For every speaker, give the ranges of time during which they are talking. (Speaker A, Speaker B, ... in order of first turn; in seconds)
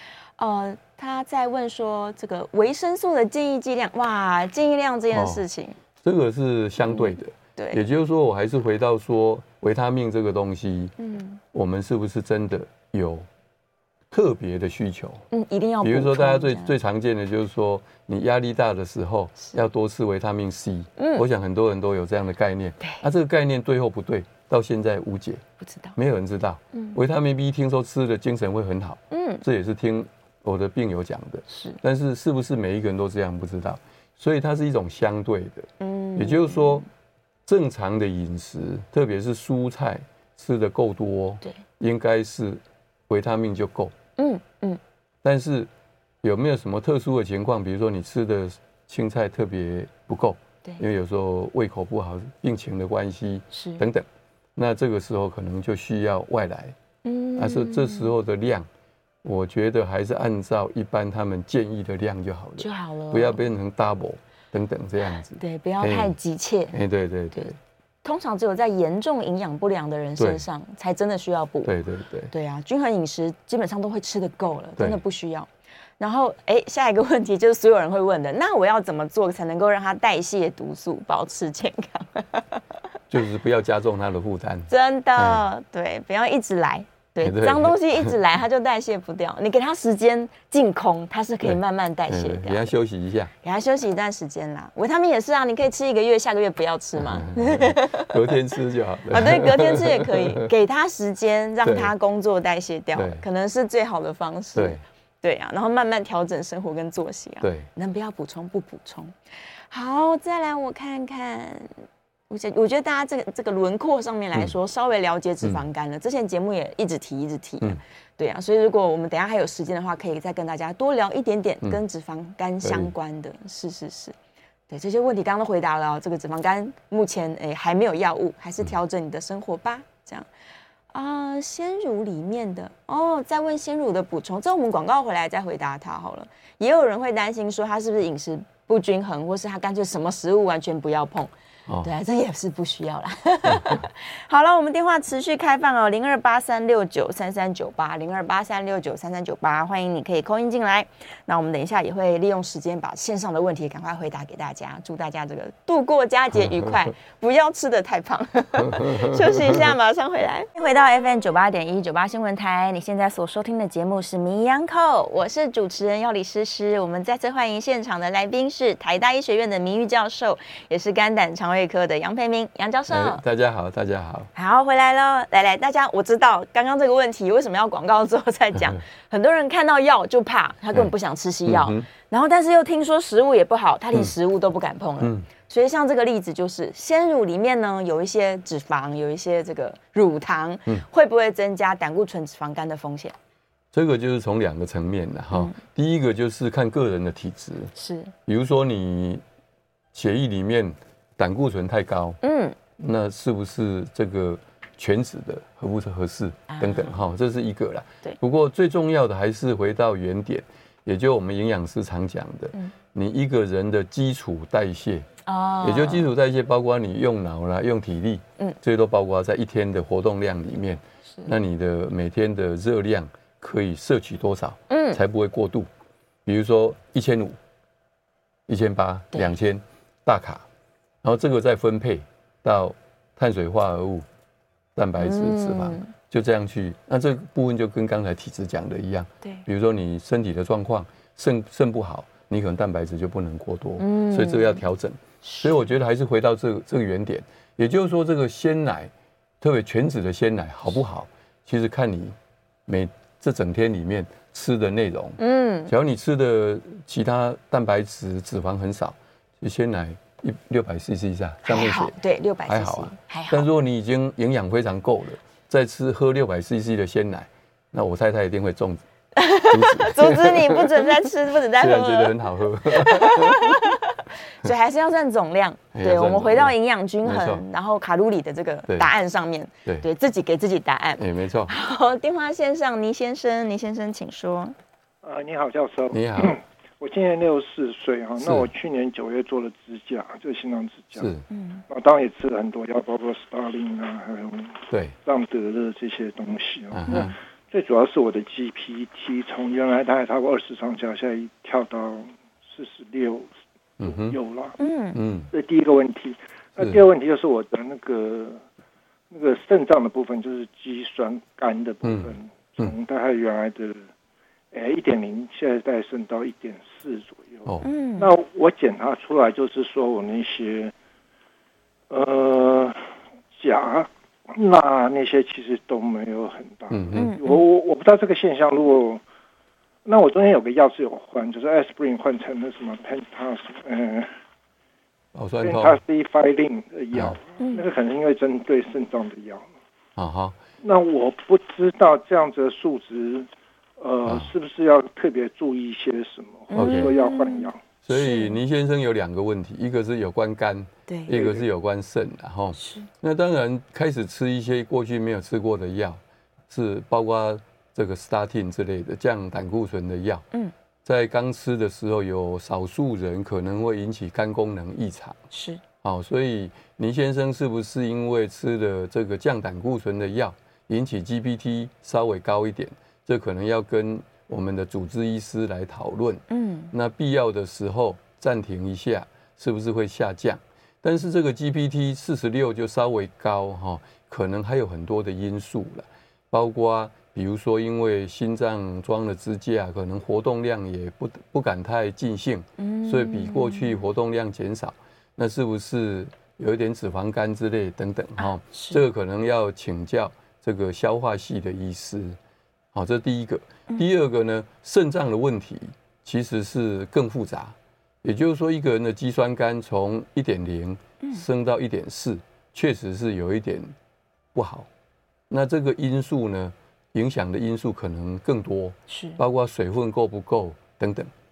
Speaker A: 0.4-5.8, 6.9-7.8, 11.0-11.4, 15.3-16.7, 21.0-21.2, 25.6-25.9, 26.7-27.0, 29.1-29.4, 31.5-31.8, 35.8-36.8, 44.2-44.8, 53.5-53.8, 57.0-58.1, 62.6-63.4, 65.4-66.8, 68.0-71.7, 72.3-82.6, 84.7-92.7, 93.4-98.3, 99.1-109.2, 109.7-111.8, 112.3-124.2, 124.7-130.3, 130.9-141.3, 141.8-173.2, 174.3-193.2, 195.3-195.6, 197.8-198.1, 202.2-202.6, 206.5-207.0, 215.3-216.1, 224.7-225.0, 235.0-235.9, 243.8-244.6, 245.2-245.5, 255.2-255.7, 261.5-263.5, 269.1-272.1, 272.7-284.6, 291.3-291.6, 304.6-305.0, 317.6-318.1, 326.9-327.3, 346.5-348.4, 350.9-351.2, 352.6-352.9, 365.3-365.6, 376.3-376.7, 392.6-393.8, 398.2-398.8, 418.9-419.2
Speaker B: 5.1-5.4, 6.0-10.9, 11.5-13.3, 14.1-15.2, 15.8-25.4, 26.0-36.9, 37.5-43.9, 45.2-45.7, 46.2-56.8, 57.4-58.7, 59.2-66.1, 66.7-67.6, 70.2-70.4, 71.7-72.3, 83.1-85.4, 87.2-88.1, 92.1-93.3, 97.0-100.5, 101.6-101.9, 102.9-103.2, 104.5-104.8, 107.4-107.7, 122.6-122.9, 143.5-143.8, 156.4-156.7, 158.6-159.6, 172.9-174.3, 181.5-181.9, 185.0-185.3, 193.7-197.7, 198.3-199.2, 199.9-202.2, 202.8-215.1, 215.6-225.7, 226.3-227.4, 228.5-230.4, 231.0-234.1, 234.8-252.2, 252.7-262.0, 262.5-268.8, 269.5-273.8, 275.7-277.4, 281.0-281.5, 285.9-286.4, 288.2-288.5, 291.0-291.2, 296.7-297.2, 303.8-304.2, 304.9-305.3, 311.8-312.8, 326.7-327.1, 335.1-335.8, 336.9-337.2, 340.0-340.4, 344.1-344.3, 346.6-346.9, 347.9-360.2, 360.9-365.2, 365.8-402.2, 402.7-413.7, 414.4-414.7, 415.3-421.1
Speaker C: 285.0-291.1, 291.7-304.6, 305.3-308.4, 309.1-313.9, 314.5-320.7, 321.9-322.8, 323.4-329.0, 329.9-334.1, 335.4-339.5, 340.6-347.6, 351.1-351.4